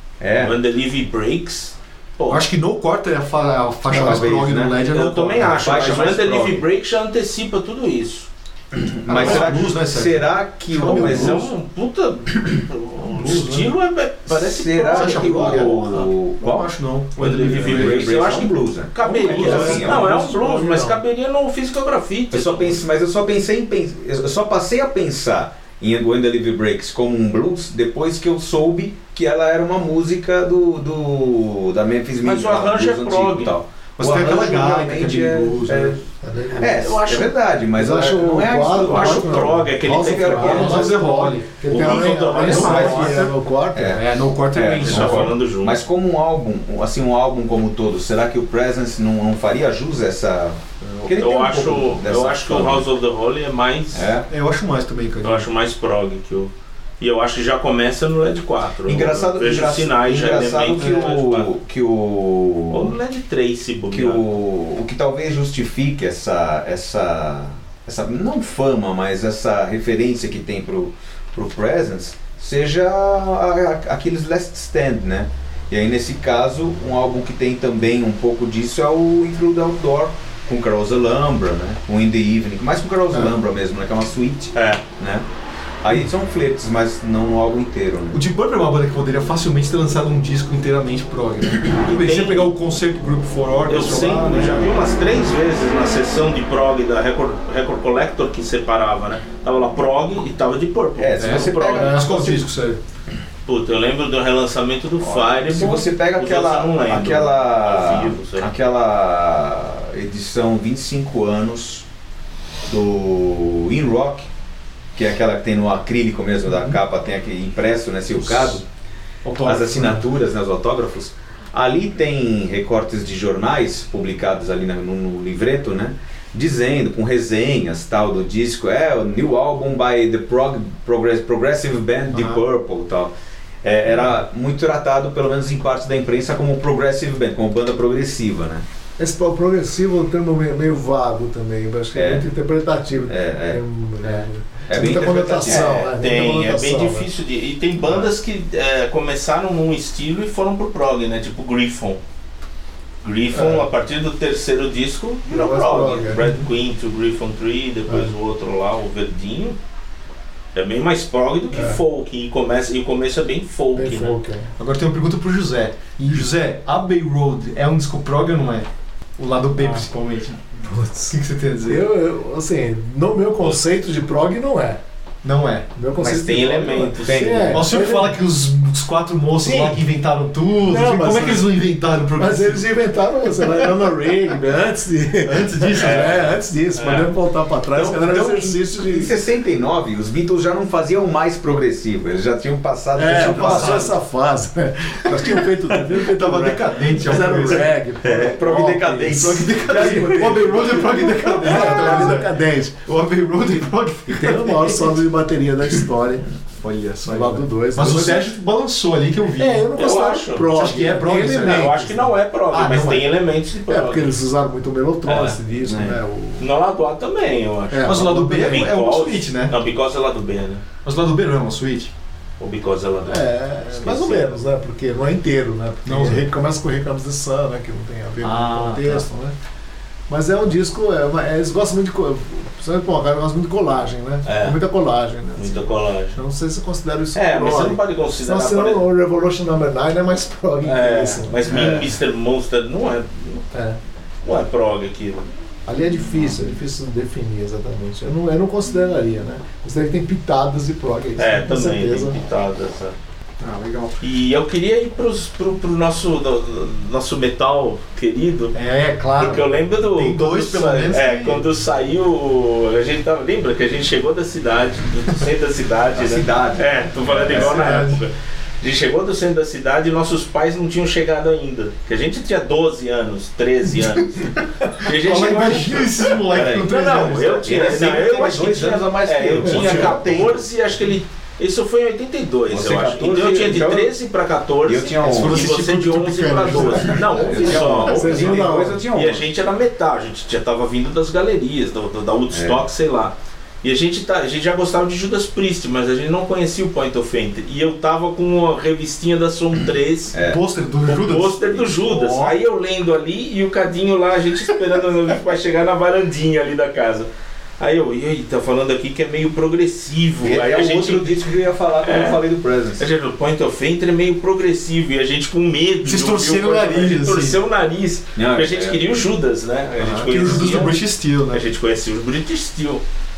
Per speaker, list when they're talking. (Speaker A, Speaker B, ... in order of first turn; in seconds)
Speaker A: 0.2-0.5, 3.9-4.8, 5.5-6.6, 8.7-11.4, 14.3-16.7, 17.3-20.1, 22.3-41.1, 43.8-52.9, 53.9-54.3, 58.9-62.9, 63.9-85.2, 85.8-88.2, 101.0-102.4, 105.0-111.8, 112.7-114.3, 114.9-118.6, 119.4-138.6, 141.9-142.2, 143.1-143.6, 144.7-145.9, 177.0-177.6, 188.1-193.9, 198.0-200.8, 215.6-216.0, 265.9-267.6, 276.3-280.4, 282.5-283.9, 284.6-285.5, 286.7-289.2, 292.3-292.6, 300.1-300.4, 310.2-312.9, 318.2-318.9
Speaker B: 0.4-2.4, 4.9-8.3, 9.1-9.5, 10.8-16.1, 17.2-22.8, 32.2-33.5, 36.6-37.3, 38.6-40.9, 41.7-43.2, 44.8-45.8, 51.0-54.1, 55.2-61.5, 62.7-64.2, 84.5-84.8, 91.8-92.5, 93.7-102.2, 103.5-108.5, 145.4-152.0, 153.0-159.6, 160.5-164.2, 176.0-177.6, 185.8-187.1, 209.7-214.1, 215.1-215.4, 216.4-220.6, 222.4-224.4, 234.2-234.6, 235.3-236.2, 237.1-238.8, 240.6-243.4, 244.2-245.3, 251.2-252.9, 254.0-258.5, 259.2-300.1, 300.9-311.3, 311.8-312.2, 312.8-322.8
Speaker C: 2.3-5.8, 9.1-11.5, 13.0-13.7, 14.9-18.4, 19.0-19.9, 34.0-36.0, 40.4-45.4, 54.3-55.5, 83.1-83.4, 88.1-94.8, 101.2-102.8, 116.5-116.8, 118.2-118.6, 119.2-120.0, 132.1-132.4, 164.6-168.7, 169.2-170.4, 171.1-171.9, 175.2-175.7, 177.5-182.8, 183.4-183.7, 185.2-186.3, 193.1-193.9, 195.9-197.8, 198.5-205.0, 206.6-209.7, 210.5-211.8, 212.5-213.1, 217.8-219.6, 220.8-221.9, 225.8-226.2, 228.2-229.1, 253.4-254.0, 258.5-261.4, 267.2-268.0, 274.9-277.7, 279.5-280.0, 285.0-287.7, 300.2-302.4, 315.8-317.4, 319.8-321.5
Speaker D: 19.2-21.0, 36.2-36.8, 37.8-44.0, 139.0-147.1, 153.3-153.7, 155.3-156.3, 161.5-161.8, 163.7-164.5, 170.6-174.8, 175.8-178.2, 179.4-179.8, 180.6-181.5, 182.2-189.1, 192.9-202.8, 204.1-206.3, 207.1-208.3, 209.3-212.1, 213.7-216.5, 217.7-218.6, 223.1-229.3, 230.1-241.9, 243.5-243.8, 245.7-252.2, 287.5-288.8